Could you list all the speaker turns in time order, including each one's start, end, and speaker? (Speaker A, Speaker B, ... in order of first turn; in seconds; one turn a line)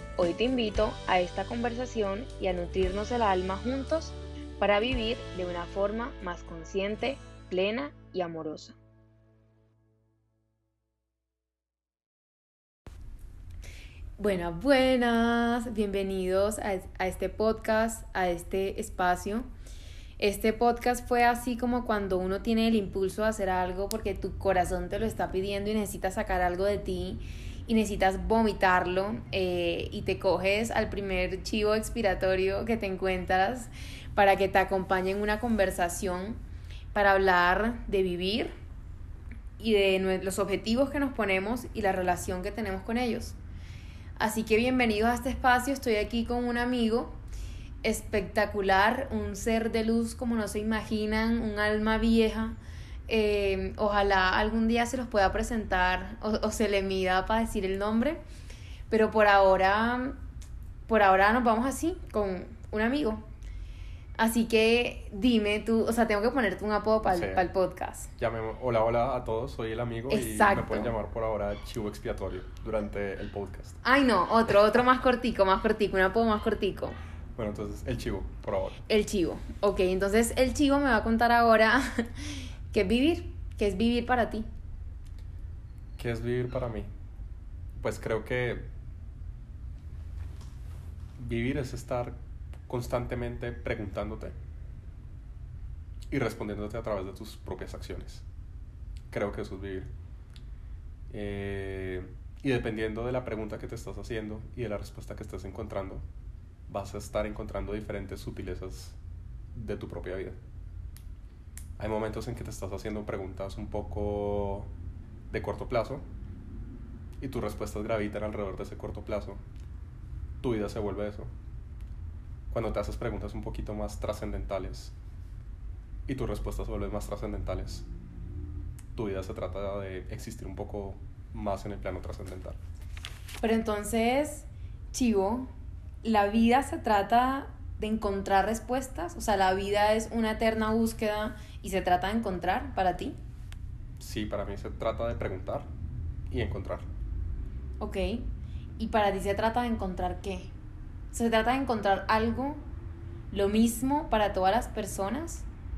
Speaker A: 0.2-8.8
Speaker A: 14.2-19.5
Speaker A: 20.2-36.4
Speaker A: 36.9-38.5
Speaker A: 39.6-43.4
Speaker A: 44.2-47.2
Speaker A: 47.8-52.6
Speaker A: 53.1-58.2
Speaker A: 58.9-60.2
Speaker A: 60.9-63.3
Speaker A: 64.2-68.1
Speaker B: 67.1-67.5
Speaker B: 68.2-73.8
Speaker A: 70.1-70.9
Speaker A: 73.8-77.0
Speaker B: 77.4-78.8
Speaker A: 78.9-84.5
Speaker B: 86.0-86.9
Speaker B: 87.8-88.7
Speaker B: 91.2-94.4
Speaker B: 96.1-98.2
Speaker B: 99.1-99.9
Speaker B: 101.1-106.0
Speaker B: 106.7-109.0
Speaker B: 109.5-110.4
Speaker B: 111.8-114.7
Speaker B: 115.3-116.1
Speaker B: 117.2-119.4
Speaker B: 120.4-121.3
Speaker B: 122.5-124.9
Speaker B: 126.1-127.9
Speaker B: 128.9-132.6
Speaker A: 133.4-135.5
Speaker A: 136.0-143.2
Speaker B: 144.0-145.7
Speaker B: 146.3-146.9
Speaker A: 147.8-148.3
Speaker A: 148.8-150.5
Speaker A: 151.1-152.6
Speaker A: 153.3-155.5